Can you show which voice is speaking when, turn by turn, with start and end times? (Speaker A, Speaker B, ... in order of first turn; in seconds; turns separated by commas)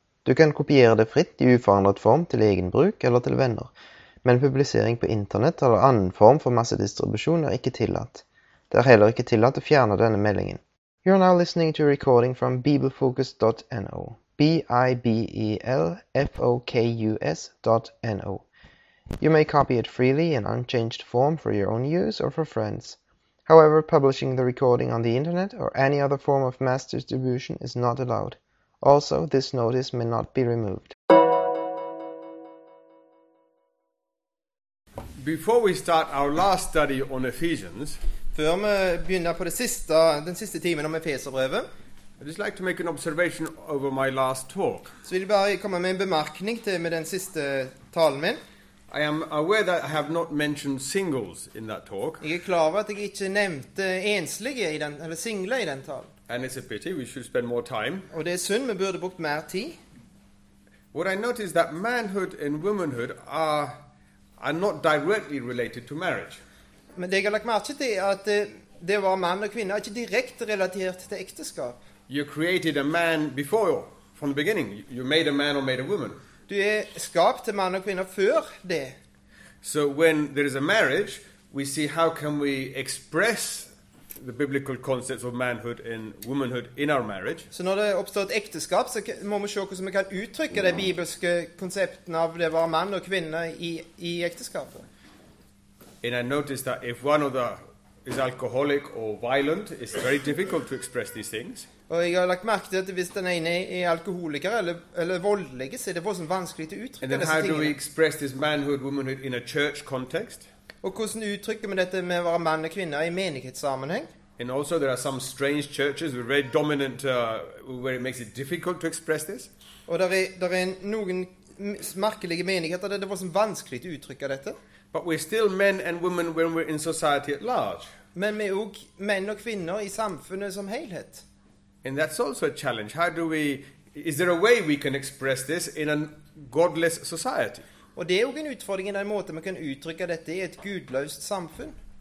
Speaker A: 0.3-3.6, Speaker B: 0.3-3.7, Speaker A: 4.2-4.7, Speaker B: 4.3-8.2, Speaker A: 5.3-7.4, Speaker A: 8.7-9.7, Speaker B: 8.7-18.4, Speaker A: 11.1-13.5, Speaker A: 19.2-21.3, Speaker B: 19.2-22.9, Speaker A: 21.8-22.9, Speaker A: 23.5-25.1, Speaker B: 23.5-28.4, Speaker A: 25.9-28.1, Speaker A: 28.8-30.2, Speaker B: 29.2-30.9, Speaker C: 35.2-38.0, Speaker A: 38.3-41.7, Speaker C: 42.2-44.9, Speaker A: 45.0-48.4, Speaker C: 48.9-52.2, Speaker A: 52.2-56.1, Speaker C: 56.3-58.1, Speaker A: 58.1-59.8, Speaker C: 60.9-63.7, Speaker C: 64.4-66.4, Speaker A: 67.0-71.8, Speaker C: 72.1-76.2, Speaker A: 76.5-78.9, Speaker C: 79.6-87.5, Speaker A: 87.5-94.8, Speaker C: 96.0-101.7, Speaker A: 101.9-107.8, Speaker C: 107.0-110.5, Speaker A: 110.8-114.1, Speaker C: 114.4-119.5, Speaker A: 119.9-124.6, Speaker C: 124.9-127.9, Speaker A: 128.1-131.2, Speaker C: 131.8-137.7, Speaker A: 137.9-141.7